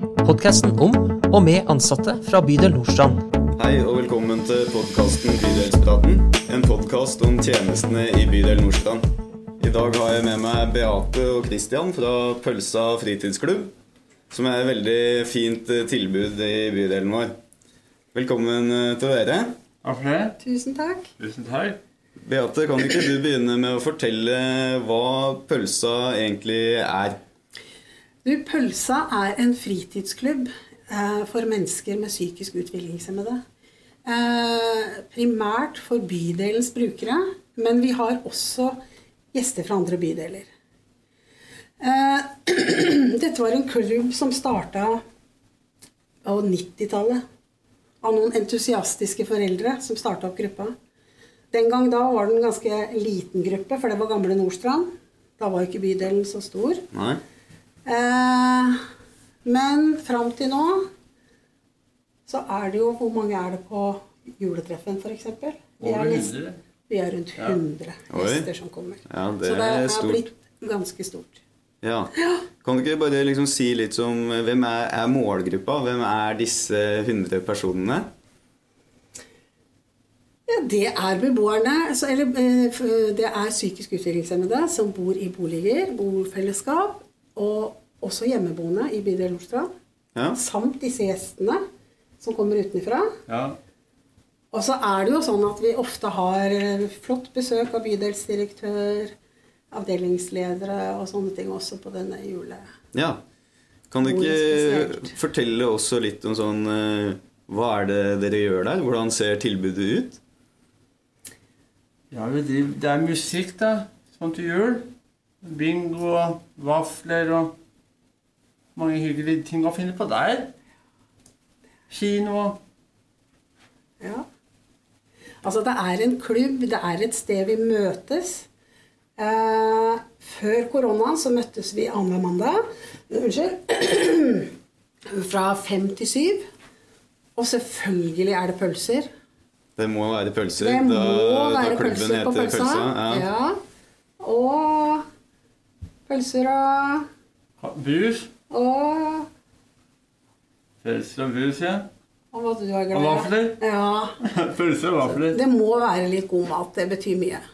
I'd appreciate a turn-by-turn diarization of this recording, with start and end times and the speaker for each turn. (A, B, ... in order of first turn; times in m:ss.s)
0:00.2-0:03.2 A
0:03.6-0:09.0 B
0:09.6-0:13.7 B
0:14.3-0:17.3 B
0:18.1-0:19.6 B
0:19.8-0:20.4 C
0:20.4-0:21.1 D
0:21.2-0:21.8 C
0:22.2-0:27.2 B
0:28.2-0:33.4 D
0:34.0-0:38.8 D
0:39.3-0:40.5 D
0:41.8-0:45.0 D
0:46.2-0:47.2 D
0:48.0-0:50.7 D
0:51.5-0:54.9 D
0:55.4-0:56.8 D
0:56.9-0:57.2 B
0:57.8-0:58.8 D
0:59.4-1:00.9 D
1:02.3-1:06.4 D
1:05.8-1:06.6 C
1:06.9-1:11.4 D
1:08.1-1:08.5 B
1:09.1-1:10.2 B
1:11.8-1:18.1 B
1:12.2-1:12.4 D
1:20.5-1:29.7 D
1:30.3-1:31.6 D
1:32.2-1:33.1 D
1:33.3-1:33.6 C
1:34.5-1:39.1 D
1:39.7-1:42.6 D
1:42.9-1:43.2 B
1:43.9-1:50.2 B
1:44.0-1:45.1 D
1:52.1-1:54.9 C
1:55.4-1:57.5 C
1:58.8-2:00.5 C
2:01.9-2:02.6 C
2:05.4-2:08.5 D
2:09.2-2:14.5 D
2:15.1-2:16.4 D
2:17.4-2:19.1 D
2:19.8-2:23.3 B
2:20.6-2:23.6 D
2:24.2-2:25.0 D
2:26.1-2:27.1 D
2:27.6-2:28.3 C
2:28.5-2:29.3 D
2:30.8-2:31.9 C
2:32.3-2:34.2 D
2:32.9-2:33.6 C
2:34.2-2:35.4 C
2:35.1-2:37.4 D